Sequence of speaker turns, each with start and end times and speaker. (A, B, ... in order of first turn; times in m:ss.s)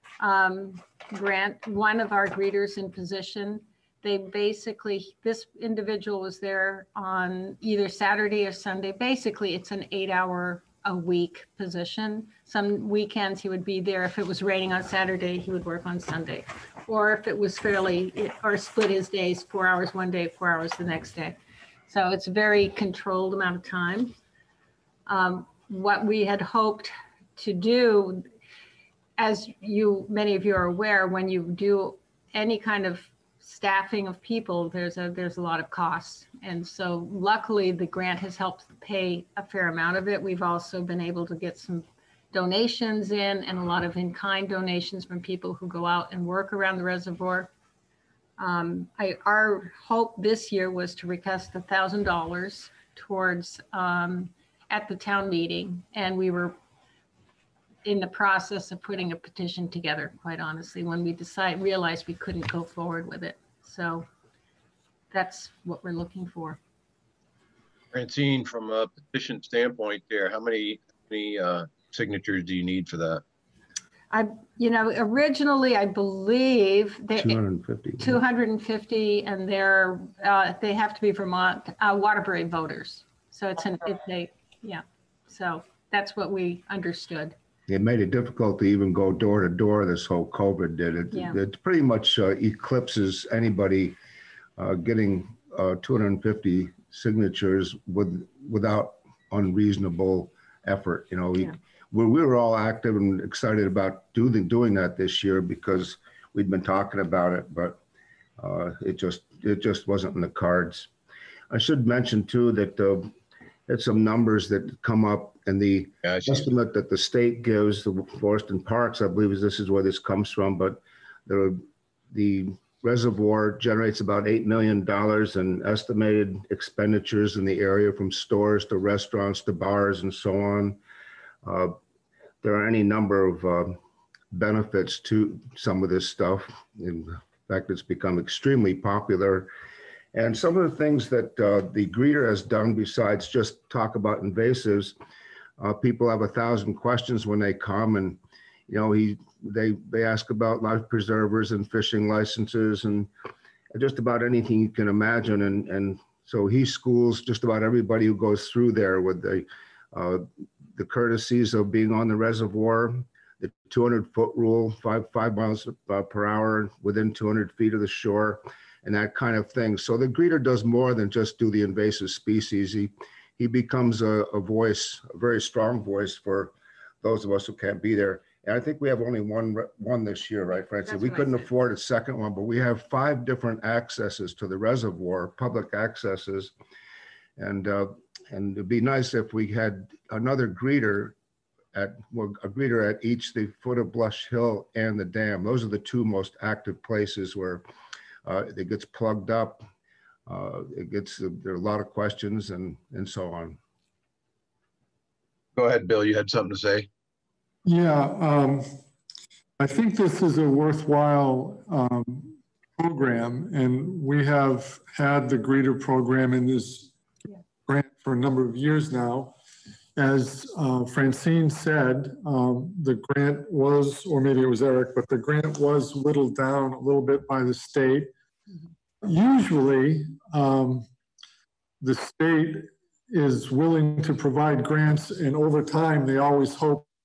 0:00.2-0:24.1 A
0:25.1-0:28.2 A
0:29.2-0:47.5 A
0:48.4-0:56.6 A
0:57.8-1:04.1 A
1:05.1-1:06.6 A
1:07.9-1:13.2 B
1:14.1-1:17.4 A
1:17.2-1:18.2 C
1:18.0-1:27.4 A
1:27.7-1:34.0 C
1:31.1-1:31.4 A
1:34.6-1:47.8 C
1:48.4-1:50.9 C
1:51.5-1:53.1 C
1:53.7-2:10.8 C
1:56.0-1:56.5 B
2:11.4-2:11.8 C
2:12.4-2:13.8 C
2:14.3-2:19.5 C
2:20.1-2:25.0 C
2:25.6-2:33.1 C
2:33.7-3:06.5 C
3:00.8-3:01.4 A
3:07.4-3:11.2 C
3:11.7-3:17.6 C
3:18.2-3:19.6 C
3:20.3-3:23.6 C
3:25.6-3:26.9 B
3:27.6-3:28.7 D
3:29.6-3:36.9 D
3:37.7-3:39.3 D
3:40.0-3:48.1 D
3:49.0-3:50.9 D
3:51.8-3:56.9 D